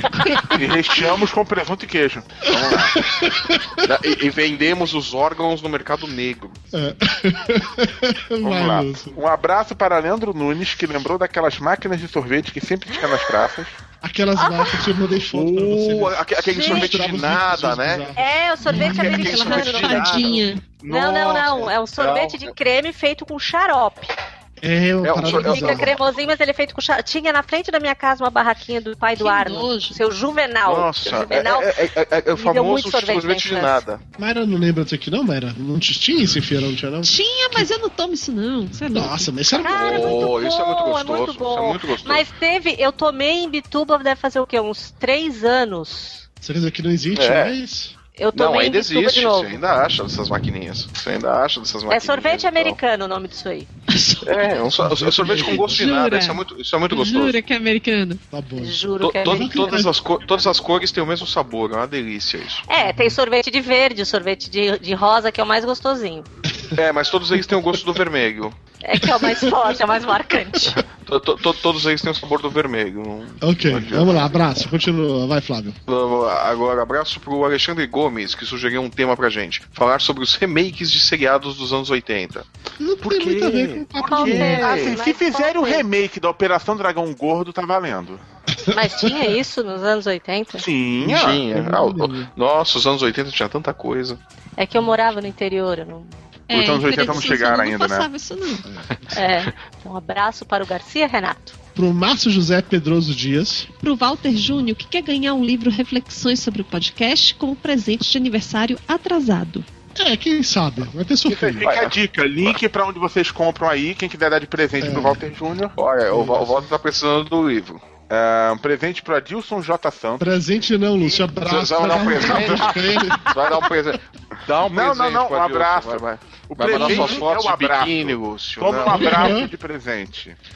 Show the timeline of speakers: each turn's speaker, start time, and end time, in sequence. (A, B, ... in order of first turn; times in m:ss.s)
0:00.5-0:02.9 A
0:02.5-0:02.9 B
0:02.5-0:04.0 C
0:03.8-0:06.6 B
0:06.7-0:09.2 C
0:08.4-0:13.7 A
0:14.0-0:19.0 C
0:14.4-0:14.7 D
0:15.3-0:15.9 A
0:15.8-0:18.1 B
0:18.1-0:20.4 D
0:18.7-0:20.6 E
0:18.7-0:22.5 B
0:20.9-0:24.1 D
0:24.6-0:25.9 C
0:25.0-0:25.9 B
0:25.2-0:33.8 D
0:29.2-0:30.0 E
0:30.6-0:34.0 B
0:34.2-0:37.6 C
0:37.0-0:39.3 E
0:38.9-0:40.4 C
0:39.5-0:46.2 D
0:39.6-0:42.2 B
0:46.4-0:47.9 C
0:47.1-0:47.6 B
0:48.2-0:49.6 D
0:48.3-0:52.8 B
0:51.9-0:53.7 D
0:53.9-0:54.7 E
0:54.2-0:57.4 B
0:54.8-0:55.8 C
0:55.4-0:56.4 E
0:56.9-0:58.2 E
0:58.3-0:59.9 C
0:58.6-0:59.6 D
0:59.0-1:02.6 B
1:02.7-1:06.3 D
1:02.8-1:03.1 C
1:06.7-1:08.6 B
1:08.8-1:10.8 D
1:09.0-1:09.7 C
1:11.0-1:14.6 B
1:13.4-1:15.8 C
1:15.9-1:22.5 B
1:22.8-1:25.0 C
1:23.0-1:23.8 B
1:24.0-1:25.9 D
1:24.0-1:28.2 A
1:28.6-1:29.4 C
1:28.7-1:30.6 D
1:30.6-1:31.2 A
1:31.0-1:32.3 C
1:31.0-1:34.2 B
1:34.6-1:36.1 D
1:36.5-1:38.6 E
1:36.5-1:38.1 A
1:39.1-1:41.6 D
1:41.7-1:43.7 C
1:43.8-1:49.6 E
1:49.9-1:51.7 C
1:51.3-1:55.7 A
1:51.6-1:52.6 B
1:54.8-1:55.2 C
1:55.8-1:57.8 B
1:56.1-1:56.7 C
1:58.1-2:00.3 A
2:00.2-2:03.3 C
2:01.4-2:09.4 B
2:02.2-2:02.9 A
2:04.7-2:10.4 A
2:06.7-2:07.3 C
2:08.9-2:09.5 C